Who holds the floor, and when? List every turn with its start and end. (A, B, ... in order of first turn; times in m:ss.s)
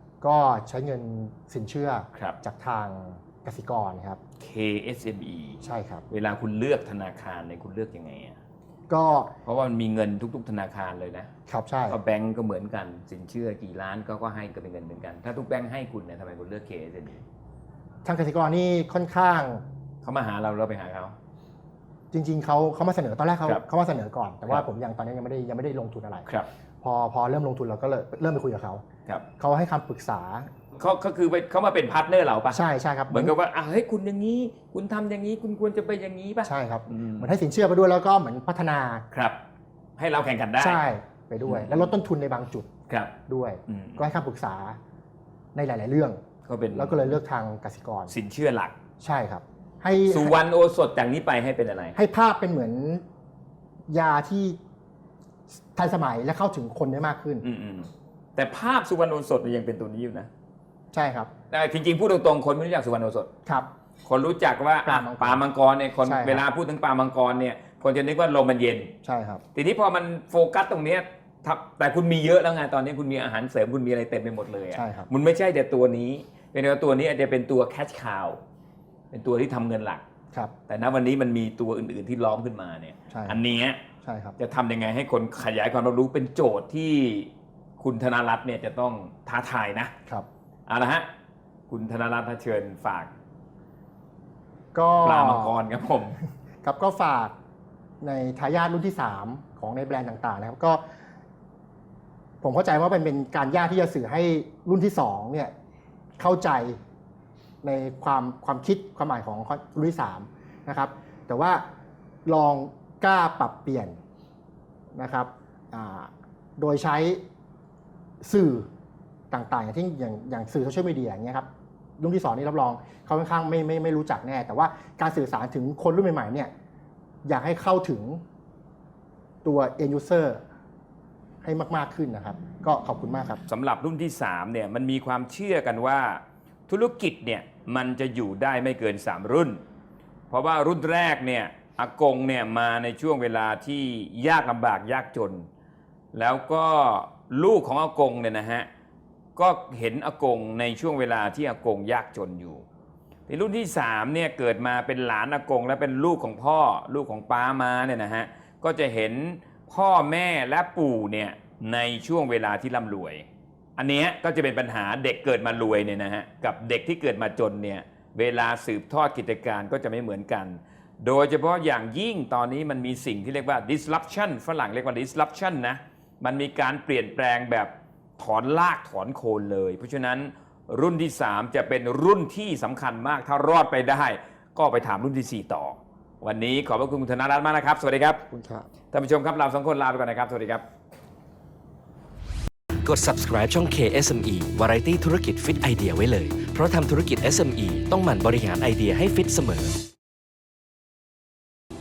0:00.2-0:04.2 A
0:04.4-0:08.4 B
0:05.6-0:06.0 A
0:08.9-0:09.3 A
0:09.4-0:11.3 B
0:11.5-0:12.0 A
0:11.9-0:17.2 B
0:18.0-0:19.6 A
0:20.0-0:21.1 B
0:22.1-0:26.3 A
0:26.8-0:28.8 A
0:29.4-0:30.5 A
0:30.8-0:37.3 B
0:32.5-0:33.3 A
0:36.4-0:39.0 A
0:39.1-0:39.4 B
0:40.0-0:40.8 B
0:40.6-0:42.7 A
0:41.4-0:41.9 B
0:43.3-0:44.8 A
0:43.7-0:44.1 B
0:45.5-0:46.2 A
0:46.4-0:47.2 B
0:46.7-0:48.1 A
0:48.1-0:48.8 B
0:49.0-0:50.4 A
0:50.0-0:52.0 B
0:52.0-0:53.0 A
0:53.9-0:54.6 A
0:55.7-0:57.4 A
0:57.4-1:00.3 B
1:00.9-1:01.3 A
1:01.5-1:03.3 B
1:04.0-1:08.9 B
1:04.8-1:05.4 A
1:06.0-1:06.5 A
1:09.0-1:09.4 A
1:09.5-1:18.4 B
1:14.7-1:15.1 A
1:19.1-1:20.0 B
1:20.7-1:23.8 B
1:23.1-1:23.4 A
1:24.0-1:24.4 A
1:24.4-1:29.9 B
1:30.7-1:31.1 B
1:31.7-1:33.1 B
1:34.7-1:35.6 A
1:35.0-1:36.2 B
1:36.6-1:37.3 A
1:38.0-1:40.8 A
1:42.4-1:45.5 A
1:46.2-1:46.8 A
1:47.6-1:51.6 A
1:52.2-1:54.0 A
1:55.0-1:57.2 A
1:58.2-1:58.7 A
1:59.3-2:01.5 A
2:02.0-2:06.5 A
2:07.2-2:08.2 A
2:09.4-2:10.4 A
2:11.4-2:13.4 A
2:13.5-2:19.6 B
2:20.3-2:25.5 B
2:26.1-2:28.7 B
2:29.4-2:32.6 B
2:33.3-3:08.2 B
3:08.3-3:08.7 A
3:08.9-3:10.6 B
3:12.8-3:19.7 C